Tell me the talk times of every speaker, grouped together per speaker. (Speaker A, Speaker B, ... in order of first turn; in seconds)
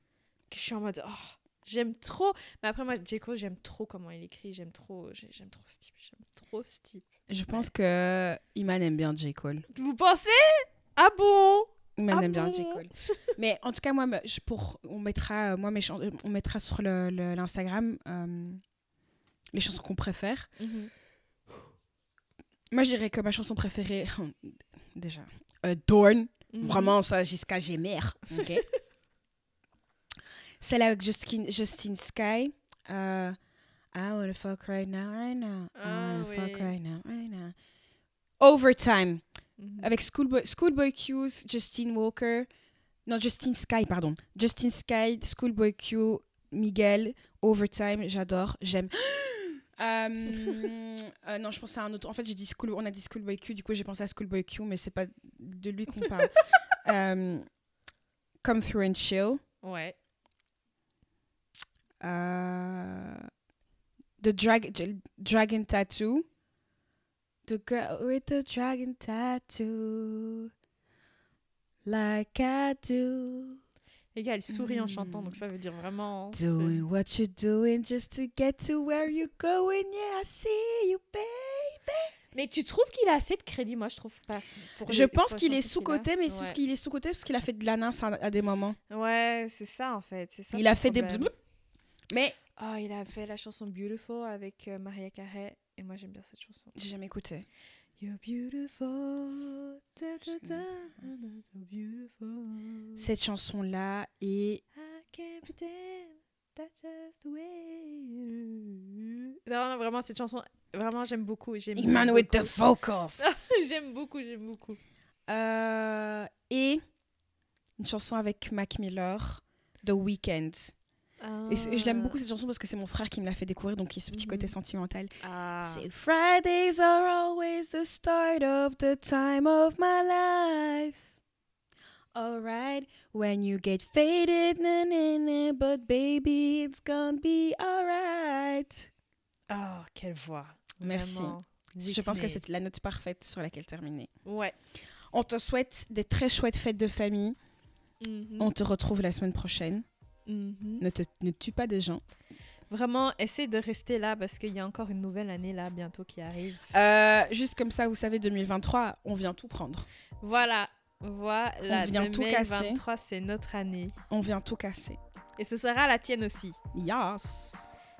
Speaker A: 0.5-7.7, 9.7-13.3, 20.6-20.9, 26.5-26.9, 28.3-28.6, 35.7-36.7, 39.6-39.9, 59.6-60.0, 74.1-76.8, 82.3-86.6, 88.9-91.3, 92.6-96.7, 98.0-103.0, 104.8-112.6, 113.2-114.8, 121.2-122.2, 124.1-124.5, 125.2-125.8, 139.5-142.4, 144.2-144.5, 148.0-148.5, 150.3-150.8, 152.7-156.7, 160.2-164.0, 165.4-166.6
Speaker B: 7.3-9.6, 11.9-18.6, 19.5-20.5, 22.7-28.6, 30.6-33.4, 33.9-37.5, 38.4-39.2, 39.8-42.5, 43.0-57.4, 58.4-59.4, 62.0-63.3, 64.2-66.2, 67.4-70.5, 71.8-73.6, 74.5-75.4, 76.3-82.1, 84.9-88.8, 90.5-91.3, 92.1-92.4, 96.7-97.5, 103.0-104.6, 111.8-113.5, 115.3-116.8, 117.8-120.7, 121.5-125.1, 125.6-131.0, 132.1-138.9, 140.8-144.1, 145.1-147.3, 148.4-149.8, 150.8-152.0, 156.7-159.9, 161.7-162.8, 164.1-165.0, 166.7-167.7